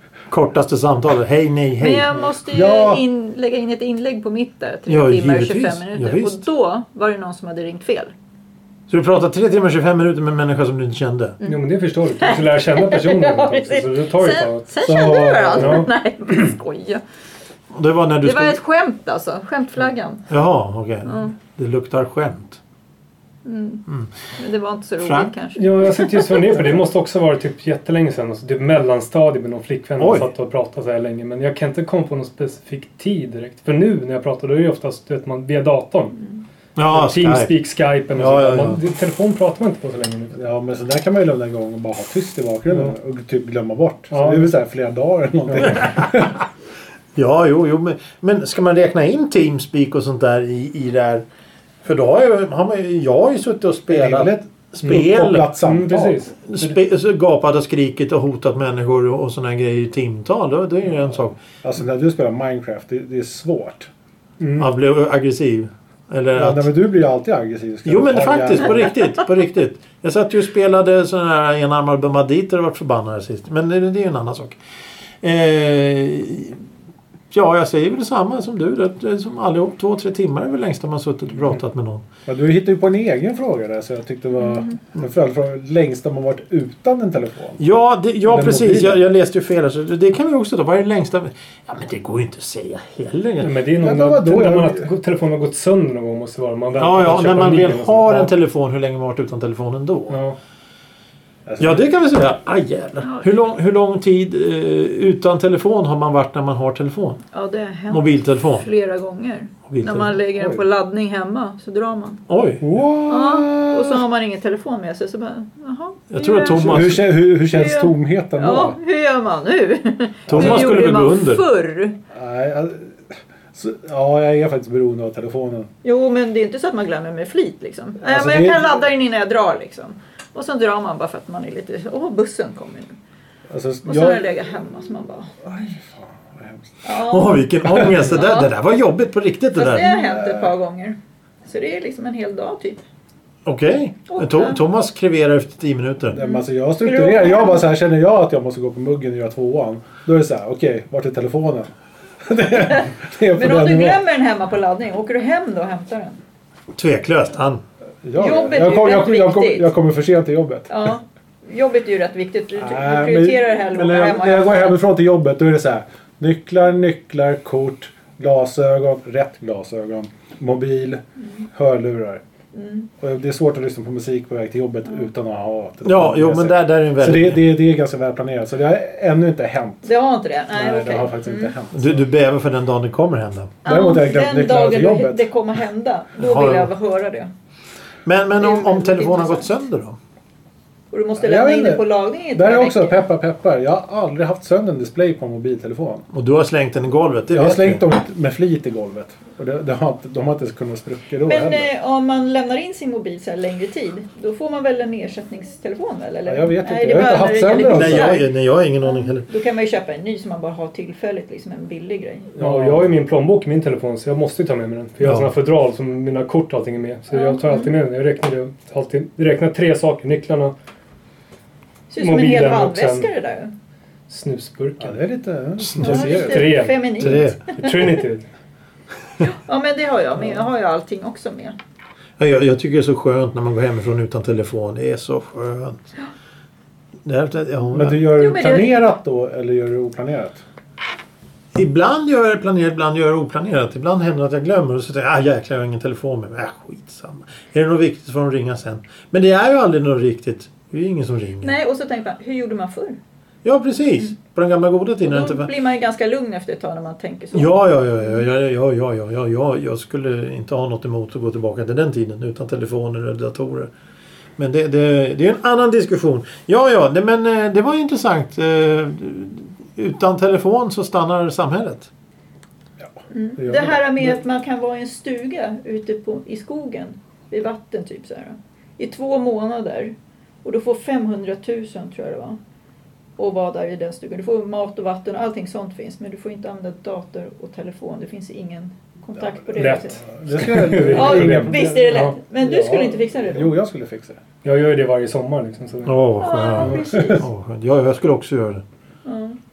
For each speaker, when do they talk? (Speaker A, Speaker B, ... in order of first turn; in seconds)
Speaker A: 0.3-2.2, 4.9-6.4, 8.9-11.4, 17.7-18.6, 20.3-22.6, 25.0-25.3, 30.0-30.3, 36.8-37.5, 38.1-38.8, 47.1-51.2, 51.8-55.5, 56.5-61.4, 64.6-66.7, 67.8-74.6, 75.2-76.6, 77.3-82.0, 87.6-93.5, 96.8-100.2, 101.6-107.2, 107.9-108.7, 109.7-110.1, 112.3-112.6, 116.1-117.0, 120.3-121.4, 137.0-139.9, 143.4-146.2, 156.7-157.6, 175.8-177.4, 181.7-183.6, 186.2-186.7, 188.0-190.0, 196.1-197.8, 207.6-209.3, 215.0-215.3, 226.9-227.4, 232.2-235.8, 237.0-238.1, 241.5-251.5, 253.4-255.5, 257.3-263.7, 264.4-271.9, 295.8-298.6
Speaker B: 1.8-8.1, 11.4-17.0, 18.2-20.3, 21.1-21.3, 23.4-26.6, 103.0-103.3, 107.3-112.2, 113.1-122.0, 125.8-133.0, 133.8-135.8, 136.8-138.5, 139.5-142.8, 144.1-144.6, 146.2-147.7, 152.5-156.2, 158.2-159.7, 160.7-164.8, 172.5-172.9, 179.8-181.5, 183.6-187.3, 188.4-189.6, 190.9-193.0, 201.2-208.3, 208.8-212.3, 217.1-217.7, 221.9-223.5, 225.8-227.7, 229.2-231.6, 238.2-238.9, 251.4-253.0, 255.0-257.6, 273.1-282.4, 283.2-290.0, 290.9-293.5, 296.2-297.2, 299.0-299.4
Speaker C: 2.5-3.0, 14.8-15.8, 40.3-46.4, 53.9-56.2, 61.6-63.9, 66.3-68.9, 82.3-87.6, 88.2-89.0, 93.8-94.9, 101.5-101.9, 110.4-110.6, 112.6-114.0, 116.5-118.8, 120.3-120.7, 122.1-125.7, 128.0-128.8, 133.5-134.3, 135.4-136.8, 139.8-140.5, 146.1-151.7, 152.2-154.0, 158.0-160.7, 162.6-172.2, 173.0-179.9, 180.5-182.0, 183.6-185.2, 191.2-196.1, 197.3-201.7, 206.2-208.2, 212.3-212.9, 224.8-226.7, 237.7-240.4, 272.8-274.1, 290.1-291.8, 292.5-294.2
Speaker D: 11.4-14.7, 15.5-15.9, 25.6-36.2, 36.8-40.4, 44.1-44.5, 45.5-45.8, 54.8-56.7, 64.4-64.7, 93.4-98.3, 100.1-100.4, 212.4-220.5, 222.0-223.1, 224.1-225.0, 226.0-228.2, 289.5-292.2, 294.4-296.0